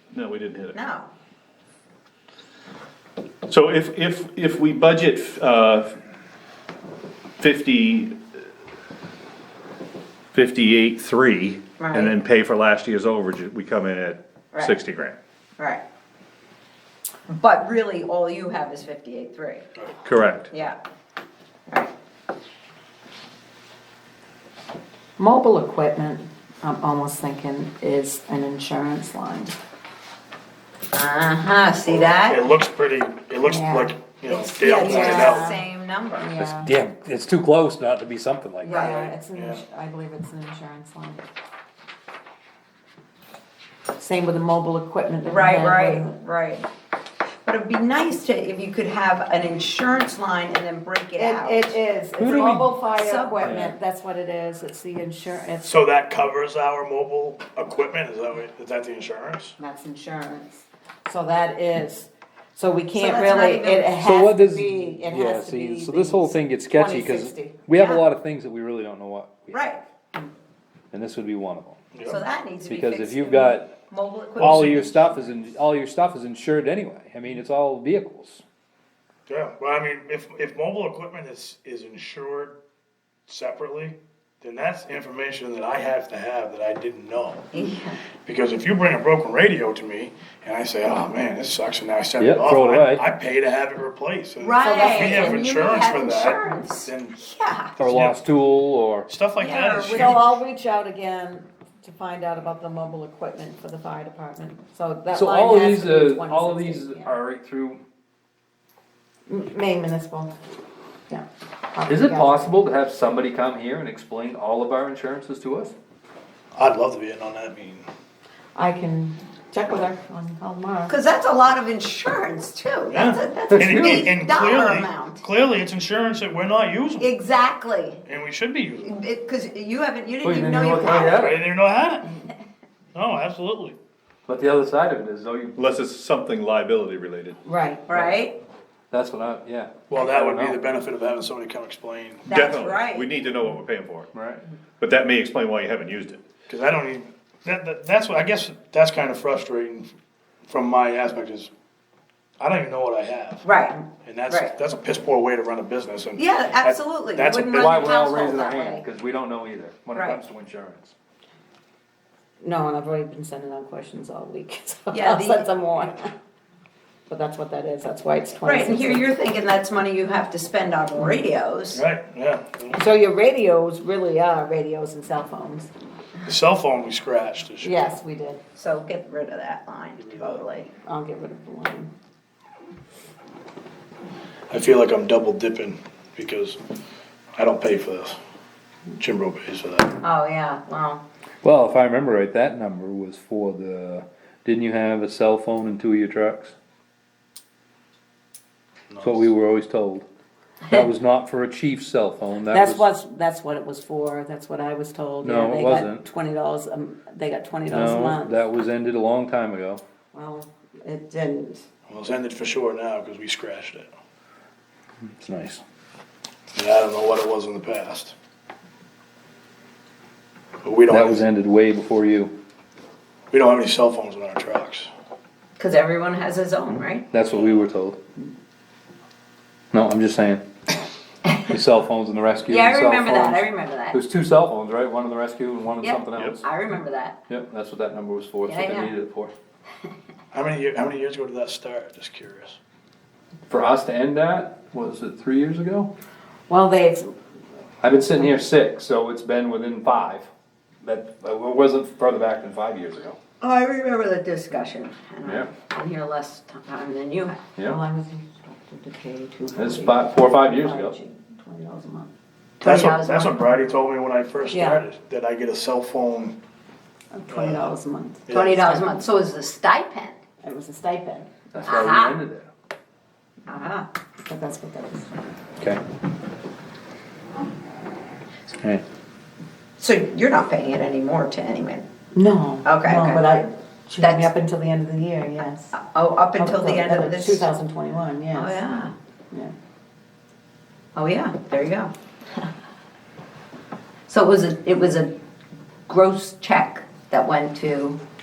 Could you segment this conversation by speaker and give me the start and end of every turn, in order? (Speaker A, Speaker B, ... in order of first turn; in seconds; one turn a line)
Speaker A: 0.1-0.8
Speaker B: 0.7-1.1
Speaker A: 3.5-6.0
Speaker A: 7.4-8.2
Speaker A: 10.3-15.2
Speaker B: 11.8-12.2
Speaker B: 14.5-14.8
Speaker B: 15.6-15.8
Speaker B: 17.3-19.6
Speaker A: 20.0-20.5
Speaker B: 20.5-20.8
Speaker C: 25.2-29.5
Speaker B: 30.9-32.4
Speaker D: 31.8-35.5
Speaker C: 33.4-33.9
Speaker B: 34.3-36.2
Speaker C: 34.9-35.6
Speaker C: 36.1-36.7
Speaker E: 36.4-38.9
Speaker B: 38.6-39.1
Speaker C: 38.6-41.2
Speaker D: 39.3-39.6
Speaker C: 44.0-46.1
Speaker B: 45.2-46.6
Speaker B: 47.4-51.8
Speaker C: 51.1-55.7
Speaker E: 52.2-52.8
Speaker B: 52.9-53.5
Speaker E: 53.4-53.7
Speaker D: 55.6-59.6
Speaker C: 59.6-67.7
Speaker B: 62.9-63.9
Speaker E: 64.0-69.6
Speaker B: 67.7-68.0
Speaker B: 69.5-69.8
Speaker E: 70.9-71.8
Speaker D: 71.9-72.2
Speaker B: 72.0-75.3
Speaker E: 72.7-73.7
Speaker D: 74.4-74.9
Speaker E: 74.4-78.4
Speaker D: 79.3-82.5
Speaker D: 83.3-87.5
Speaker B: 87.5-88.0
Speaker D: 88.2-97.2
Speaker E: 92.2-93.0
Speaker B: 94.4-97.8
Speaker C: 94.6-95.4
Speaker D: 97.8-98.2
Speaker E: 97.8-99.1
Speaker D: 99.1-100.3
Speaker B: 99.4-100.4
Speaker C: 99.9-107.1
Speaker E: 105.1-107.8
Speaker C: 109.3-110.3
Speaker C: 111.1-112.6
Speaker E: 111.9-115.7
Speaker D: 116.5-117.8
Speaker C: 118.5-121.0
Speaker B: 120.9-125.2
Speaker D: 122.9-127.1
Speaker E: 123.5-124.0
Speaker B: 127.0-128.0
Speaker D: 128.1-128.9
Speaker B: 128.8-131.4
Speaker E: 130.2-131.3
Speaker D: 131.0-132.1
Speaker D: 132.9-133.8
Speaker E: 134.2-135.6
Speaker A: 135.5-137.4
Speaker C: 137.4-138.0
Speaker B: 137.9-138.3
Speaker E: 138.9-140.6
Speaker D: 139.9-142.2
Speaker A: 142.3-144.1
Speaker B: 142.3-143.1
Speaker E: 144.1-144.4
Speaker A: 144.8-146.2
Speaker D: 146.5-149.9
Speaker D: 150.5-151.5
Speaker D: 152.4-153.5
Speaker B: 153.4-153.8
Speaker D: 154.0-157.9
Speaker B: 154.3-154.5
Speaker B: 156.2-158.9
Speaker E: 157.6-160.9
Speaker B: 159.9-160.2
Speaker C: 162.4-166.1
Speaker B: 164.9-165.5
Speaker C: 167.1-169.1
Speaker B: 168.4-171.8
Speaker D: 171.7-172.8
Speaker C: 172.8-175.7
Speaker D: 176.2-177.8
Speaker C: 177.6-178.4
Speaker B: 178.6-180.7
Speaker D: 180.1-180.4
Speaker C: 180.8-181.9
Speaker D: 184.5-186.6
Speaker D: 187.3-188.2
Speaker D: 189.0-189.9
Speaker B: 190.0-191.0
Speaker E: 191.4-196.5
Speaker D: 198.9-199.3
Speaker E: 199.0-200.0
Speaker E: 200.7-202.9
Speaker C: 202.4-208.5
Speaker E: 205.2-206.1
Speaker E: 207.7-209.8
Speaker C: 210.1-211.6
Speaker D: 211.9-213.9
Speaker E: 215.2-215.6
Speaker D: 216.5-218.1
Speaker D: 220.6-221.3
Speaker E: 220.9-222.3
Speaker D: 223.3-224.9
Speaker B: 225.6-227.1
Speaker E: 227.1-228.0
Speaker E: 229.7-230.4
Speaker B: 231.2-231.5
Speaker E: 231.5-236.4
Speaker B: 232.4-234.0
Speaker B: 235.8-237.2
Speaker A: 236.1-236.4
Speaker E: 237.3-239.3
Speaker B: 238.4-238.9
Speaker D: 240.3-242.6
Speaker E: 243.5-245.9
Speaker C: 246.5-247.1
Speaker E: 247.8-250.3
Speaker C: 248.0-248.3
Speaker E: 250.8-253.2
Speaker B: 253.4-257.4
Speaker E: 255.2-255.5
Speaker E: 257.6-257.8
Speaker C: 257.6-262.1
Speaker E: 259.5-260.9
Speaker B: 262.6-263.4
Speaker D: 262.6-266.4
Speaker C: 264.5-264.8
Speaker C: 267.1-268.9
Speaker D: 267.3-267.7
Speaker D: 268.3-268.7
Speaker B: 268.3-270.2
Speaker C: 270.4-271.4
Speaker E: 271.5-272.5
Speaker B: 271.6-272.2
Speaker B: 273.5-273.9
Speaker C: 274.2-275.4
Speaker B: 279.8-281.8
Speaker C: 282.1-285.8
Speaker B: 282.6-283.4
Speaker B: 284.0-284.3
Speaker B: 285.7-287.5
Speaker C: 286.4-288.6
Speaker B: 288.3-288.9
Speaker B: 290.9-291.9
Speaker B: 294.1-295.1
Speaker B: 295.9-298.0